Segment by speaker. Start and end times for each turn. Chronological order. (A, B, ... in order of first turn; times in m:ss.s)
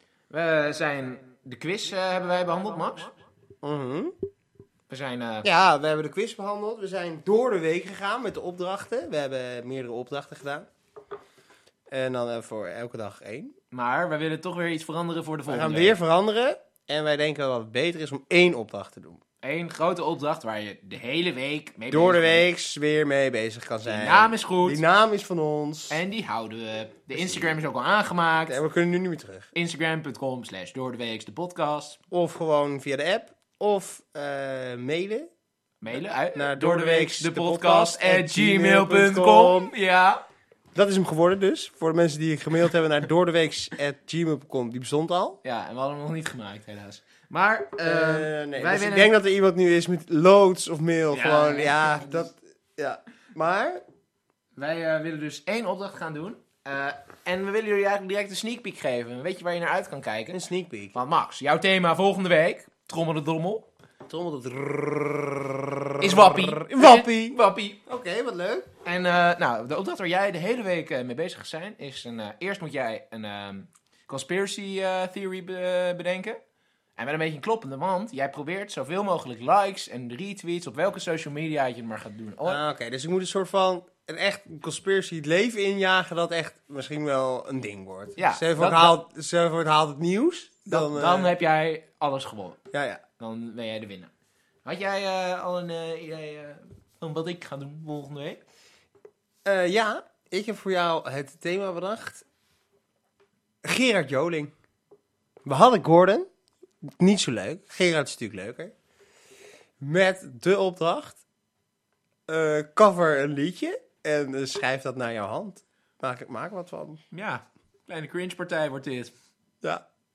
0:00.3-0:03.2 A
0:03.6-0:04.1 B
0:04.9-0:05.5 A
0:05.4-0:10.7 B
0:11.9-0:13.5 B
0:13.7-0:16.0 A
0:15.5-0:19.2 B
0:19.4-0:22.5 A
0:21.9-0:26.0 B
0:23.8-0:24.8 A
0:25.9-0:28.6 A
0:27.1-0:27.6 B
0:28.5-0:29.5 B
0:29.6-0:32.0 A
0:32.1-0:35.3 B
0:35.8-0:40.2 A
0:36.3-0:39.7 B
0:40.8-0:45.4 B
0:45.4-0:49.1 A
0:47.8-0:53.8 B
0:51.1-0:52.3 A
0:54.6-1:00.4 A
1:00.3-1:01.0 B
1:00.9-1:03.7 A
1:04.1-1:08.7 B
1:06.0-1:07.8 A
1:08.8-1:16.4 A
1:17.0-1:22.6 A
1:22.5-1:31.3 B
1:28.2-1:29.0 A
1:30.7-1:32.6 A
1:32.7-1:33.0 B
1:33.2-1:34.1 A
1:34.6-1:38.4 A
1:39.4-1:42.2 B
1:43.6-1:44.5 B
1:45.4-1:46.3 B
1:47.0-1:48.7 B
1:49.8-1:51.2 B
1:52.3-1:57.0 B
1:57.1-1:59.1 A